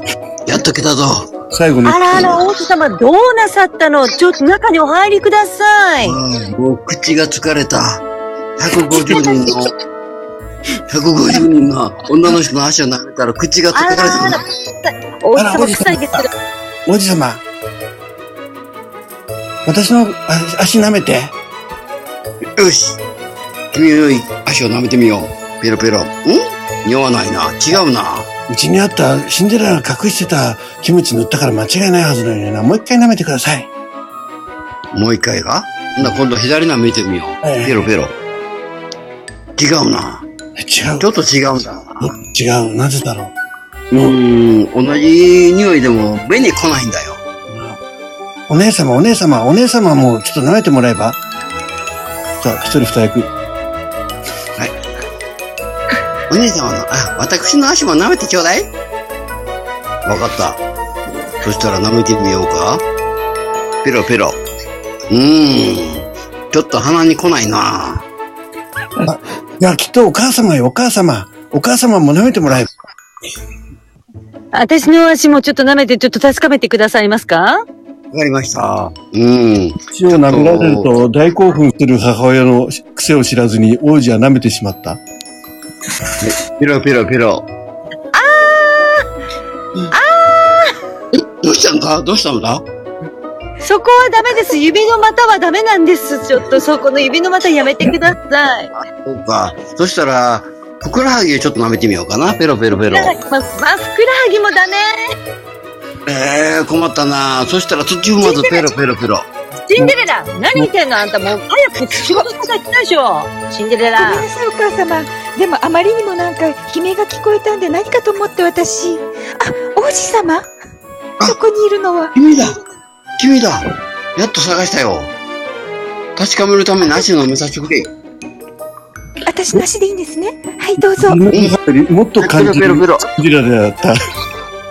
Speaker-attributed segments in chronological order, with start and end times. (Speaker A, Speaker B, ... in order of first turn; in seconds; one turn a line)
Speaker A: 0.5-1.3
Speaker B: 1.5-2.4
Speaker C: 1.8-6.2
Speaker A: 6.0-8.0
Speaker A: 8.6-9.7
Speaker C: 8.9-9.5
Speaker A: 10.9-14.4
Speaker C: 13.7-16.3
Speaker B: 15.3-16.3
Speaker B: 16.9-17.4
Speaker B: 19.6-21.3
Speaker A: 22.6-23.0
Speaker A: 23.7-28.3
Speaker B: 28.5-33.7
Speaker A: 34.9-38.1
Speaker B: 37.4-37.9
Speaker A: 39.6-40.2
Speaker B: 40.6-41.1
Speaker A: 41.0-42.1
Speaker B: 42.0-43.3
Speaker A: 43.9-47.2
Speaker B: 47.5-47.8
Speaker B: 48.5-51.2
Speaker B: 52.4-53.3
Speaker A: 56.3-58.7
Speaker A: 60.0-60.6
Speaker A: 61.4-62.8
Speaker A: 63.8-64.4
Speaker A: 65.1-68.0
Speaker B: 69.0-72.7
Speaker C: 74.5-77.6
Speaker A: 78.1-80.9
Speaker B: 79.9-85.0
Speaker A: 86.2-87.5
Speaker C: 88.1-89.0
Speaker C: 89.9-90.7
Speaker A: 91.1-92.6
Speaker C: 93.6-98.7
Speaker A: 99.0-103.2
Speaker C: 102.9-105.0
Speaker A: 106.0-109.3
Speaker C: 108.2-108.6
Speaker C: 109.7-114.2
Speaker D: 114.0-120.4
Speaker D: 121.2-122.1
Speaker A: 122.1-122.6
Speaker A: 123.2-125.1
Speaker A: 126.2-127.9
Speaker D: 129.2-131.2
Speaker B: 131.0-134.0
Speaker A: 131.3-131.6
Speaker A: 132.2-133.1